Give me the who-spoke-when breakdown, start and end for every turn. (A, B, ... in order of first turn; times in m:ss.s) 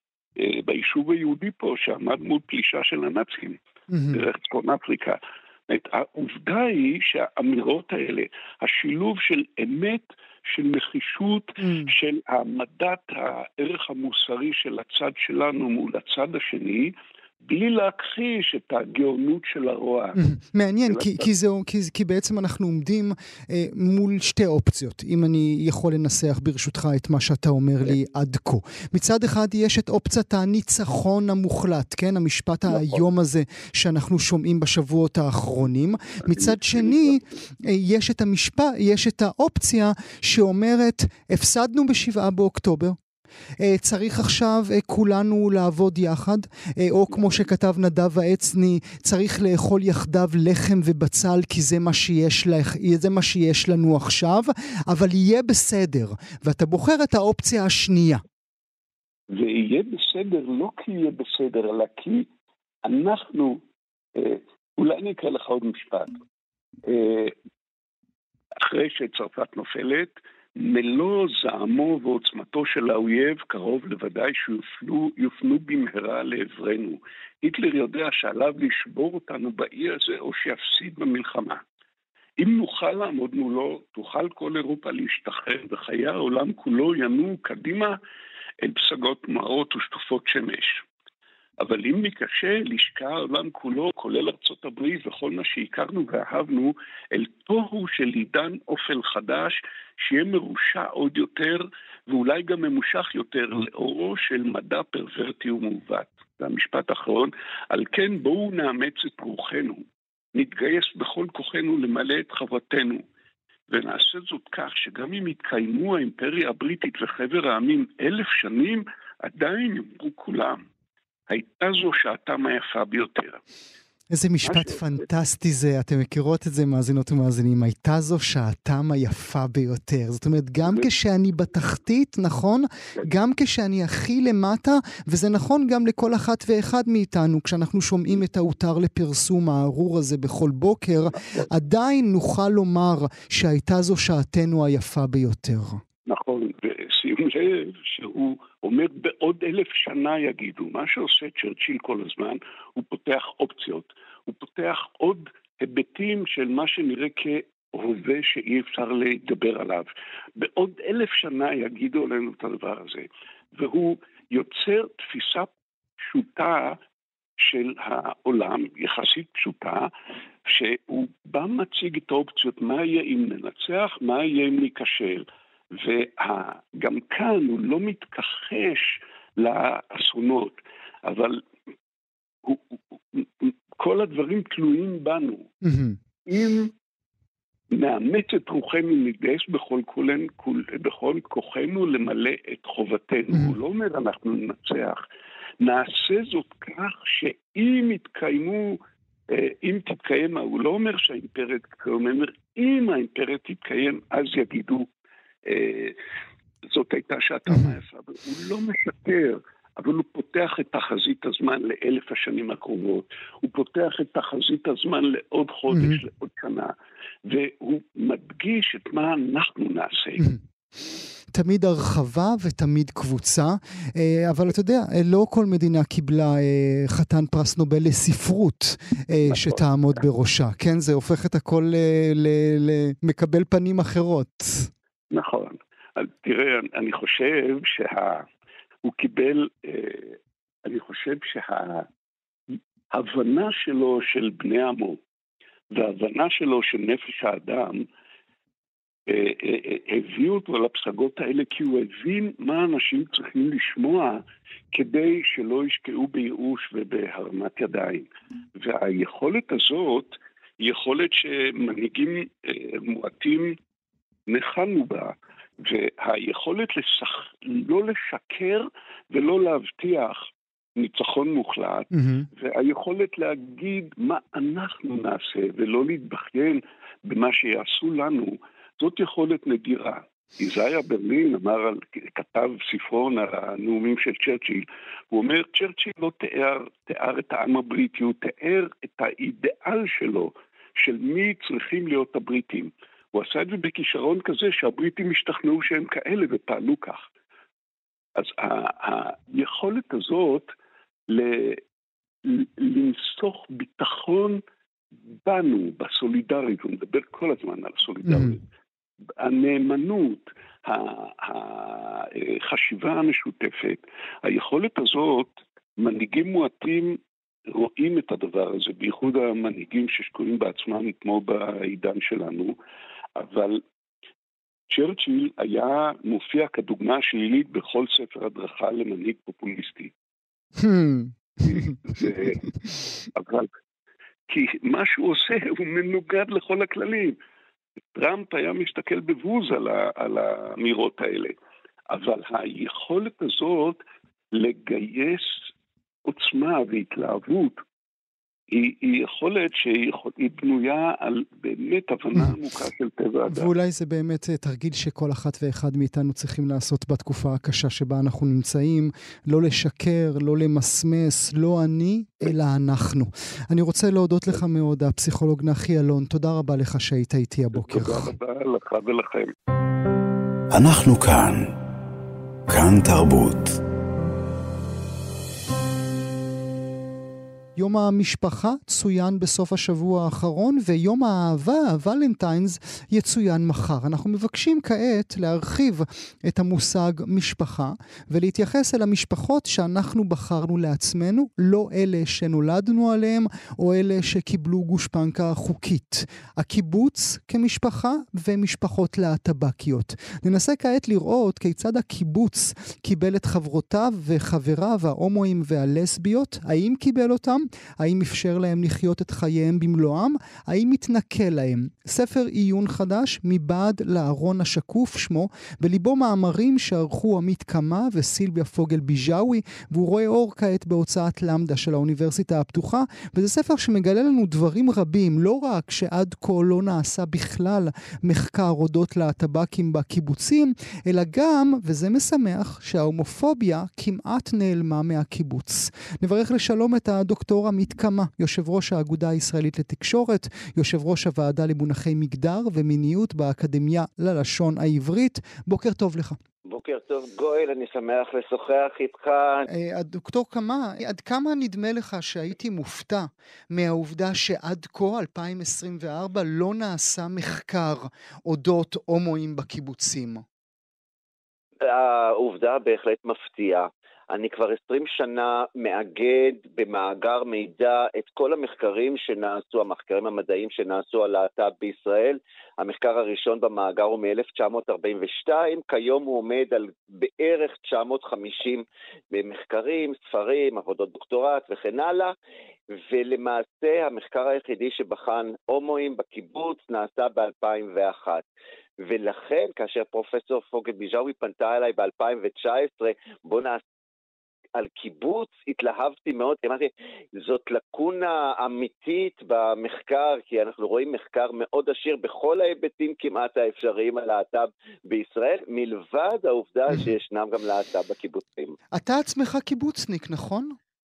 0:00.4-0:03.6 A
0:03.9-0:04.2 B
0:04.1-0:16.9 A
0:11.6-0:11.9 B
0:17.5-0:20.2 A
0:20.2-0:43.0 B
0:20.9-0:21.3 A
0:32.7-0:33.0 A
0:36.2-0:37.4 A
0:43.6-0:58.2 B
0:59.3-1:02.3 A
1:02.8-1:03.6 A
1:04.2-1:06.1 A
1:06.9-1:07.3 A
1:08.6-1:21.6 A
1:22.4-1:28.0 A
1:28.6-1:30.8 A
1:31.6-1:53.0 A
1:53.7-2:00.6 A
2:01.3-2:03.4 A
2:04.1-2:25.8 B
2:04.5-2:05.0 A
2:21.2-2:21.5 A
2:26.1-2:45.5 A
2:46.0-2:46.8 A
2:47.4-2:49.9 A
2:50.5-3:01.4 A
3:02.4-3:05.5 A
3:05.6-3:06.0 B
3:06.3-3:06.7 A
3:07.7-3:15.0 A
3:13.3-3:13.6 B
3:15.6-3:18.8 A
3:19.3-3:24.9 A
3:25.5-3:26.0 A
3:26.7-3:36.7 A
3:35.7-3:36.0 B
3:37.3-3:40.3 A
3:41.3-3:54.7 B
3:49.3-3:49.6 A
3:55.1-3:58.2 A
3:58.8-4:01.9 A
4:02.9-4:05.0 A
4:05.7-4:07.8 A
4:09.1-4:14.2 A
4:14.7-4:23.5 A
4:24.3-4:57.1 A
4:31.9-4:32.3 B
4:58.2-5:00.5 A
5:01.1-5:01.6 A
5:02.2-5:04.4 A
5:05.2-5:08.4 A
5:08.1-5:08.4 B
5:09.2-5:17.0 A
5:17.5-5:22.6 A
5:23.2-5:23.6 A
5:24.7-5:29.9 A
5:30.6-5:32.3 B
5:31.4-5:32.4 A
5:33.1-5:33.5 A
5:34.3-5:37.2 A
5:38.0-5:41.4 A
5:41.9-5:43.8 A
5:44.3-5:45.5 A
5:46.1-5:47.6 A
5:48.5-5:53.5 A
5:53.3-6:08.1 B
6:07.6-6:09.3 A
6:10.5-6:11.6 C
6:12.5-6:13.6 C
6:17.6-7:26.2 B
7:26.5-7:29.5 D
7:29.5-7:40.2 B
7:41.6-8:02.1 D
8:02.8-8:08.2 D
8:08.8-8:13.6 D
8:14.6-8:28.6 D
8:28.7-8:30.6 B